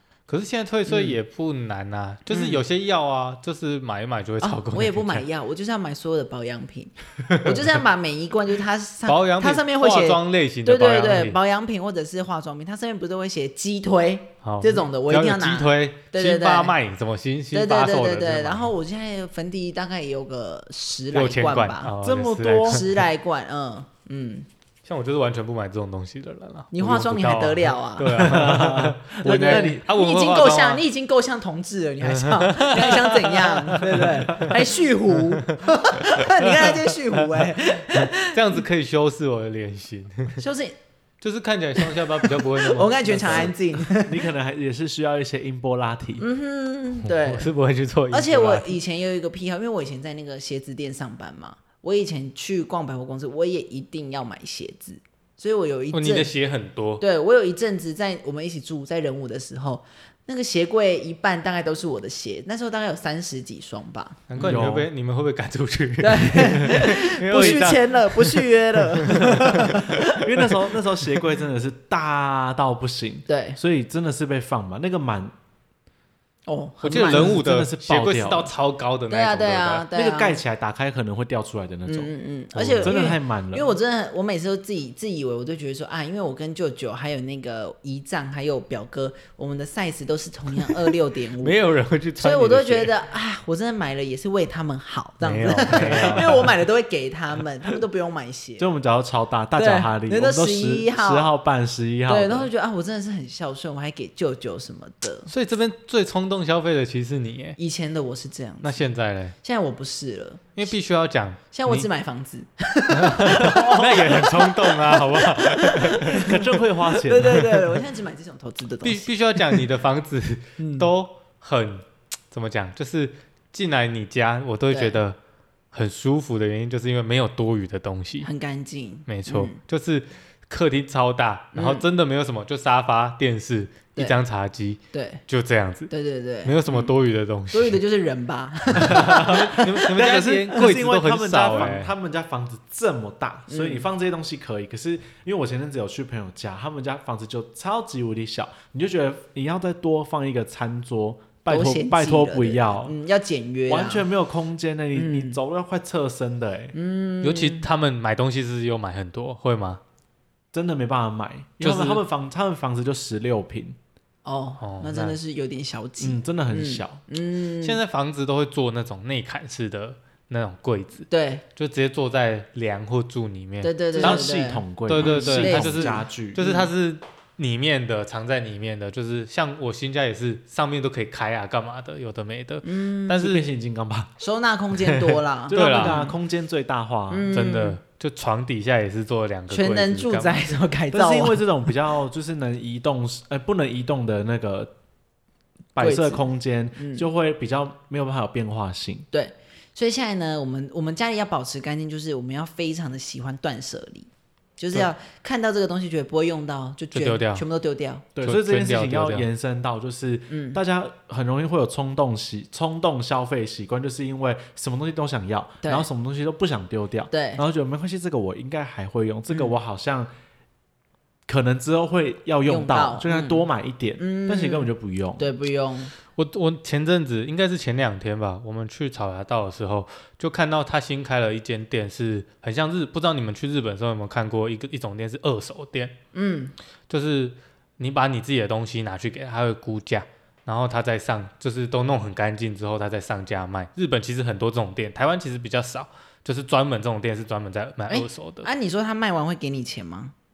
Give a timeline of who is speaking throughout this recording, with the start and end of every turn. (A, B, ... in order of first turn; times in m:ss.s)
0:00.3-0:05.2 A
0:00.9-0:01.2 B
0:02.3-0:02.6 B
0:04.4-0:16.7 B
0:09.1-0:11.4 A
0:14.4-0:18.7 A
0:17.5-0:21.9 B
0:21.1-0:22.9 A
0:22.0-0:22.8 C
0:22.6-0:24.4 B
0:24.8-0:30.8 A
0:26.7-0:28.4 B
0:28.1-0:29.8 C
0:29.2-0:38.6 B
0:32.0-0:34.5 A
0:33.8-0:34.6 C
0:36.5-0:37.0 A
0:37.9-0:40.4 A
0:40.4-0:40.7 B
0:41.2-0:43.5 A
0:41.8-0:44.2 B
0:43.1-0:46.2 C
0:46.2-0:47.5 B
0:47.0-0:48.8 A
0:48.1-0:56.3 B
0:55.9-0:57.0 A
0:57.0-1:04.6 B
1:04.3-1:09.8 A
1:04.4-1:04.9 C
1:06.0-1:10.3 B
1:09.3-1:15.3 C
1:13.3-1:13.6 B
1:16.5-1:17.4 B
1:16.8-1:19.9 A
1:16.8-1:18.5 C
1:19.1-1:20.4 B
1:19.9-1:23.7 C
1:21.8-1:31.6 B
1:31.4-1:32.9 A
1:32.2-1:38.7 B
1:35.2-1:36.5 A
1:35.7-1:36.3 C
1:38.6-1:42.5 C
1:39.6-1:41.3 B
1:42.1-1:45.3 B
1:45.3-1:47.6 A
1:47.6-1:48.8 B
1:48.6-1:49.4 A
1:49.4-1:50.4 B
1:50.6-1:51.9 A
1:51.5-1:59.6 B
1:52.9-1:56.4 A
1:53.4-1:54.1 C
1:56.0-1:57.6 C
1:58.8-2:05.2 A
2:00.6-2:00.9 B
2:04.7-2:05.0 B
2:05.7-2:08.3 A
2:08.2-2:09.6 B
2:09.1-2:15.9 A
2:11.5-2:11.8 B
2:14.9-2:15.2 B
2:15.9-2:16.9 B
2:16.4-2:17.8 A
2:17.5-2:19.9 B
2:18.8-2:32.9 C
2:19.2-2:21.9 A
2:23.5-2:23.8 B
2:31.5-2:34.0 B
2:33.7-2:36.7 C
2:34.9-2:35.4 B
2:36.7-2:37.6 B
2:37.2-2:39.8 A
2:40.5-2:43.8 C
2:41.6-2:42.0 A
2:44.2-2:47.8 B
2:44.6-2:45.2 A
2:46.0-2:47.0 C
2:47.6-2:54.2 A
2:51.1-2:51.4 B
2:53.6-2:56.7 B
2:54.0-2:56.4 C
2:54.8-3:03.4 A
3:02.6-3:03.3 B
3:03.2-3:04.1 C
3:04.2-3:06.1 B
3:05.1-3:06.0 A
3:05.5-3:07.4 C
3:07.1-3:07.8 B
3:07.3-3:10.6 A
3:09.5-3:11.4 B
3:10.9-3:14.7 C
3:15.7-3:19.1 C
3:15.8-3:16.2 B
3:16.8-3:17.0 B
3:19.1-3:28.0 B
3:26.9-3:27.4 A
3:28.2-3:40.1 C
3:28.2-3:29.3 A
3:30.3-3:30.6 B
3:37.1-3:37.4 B
3:41.3-3:45.3 C
3:42.4-3:45.9 B
3:46.2-3:55.9 A
3:56.1-3:56.5 B
3:56.9-4:08.5 A
4:07.9-4:10.1 B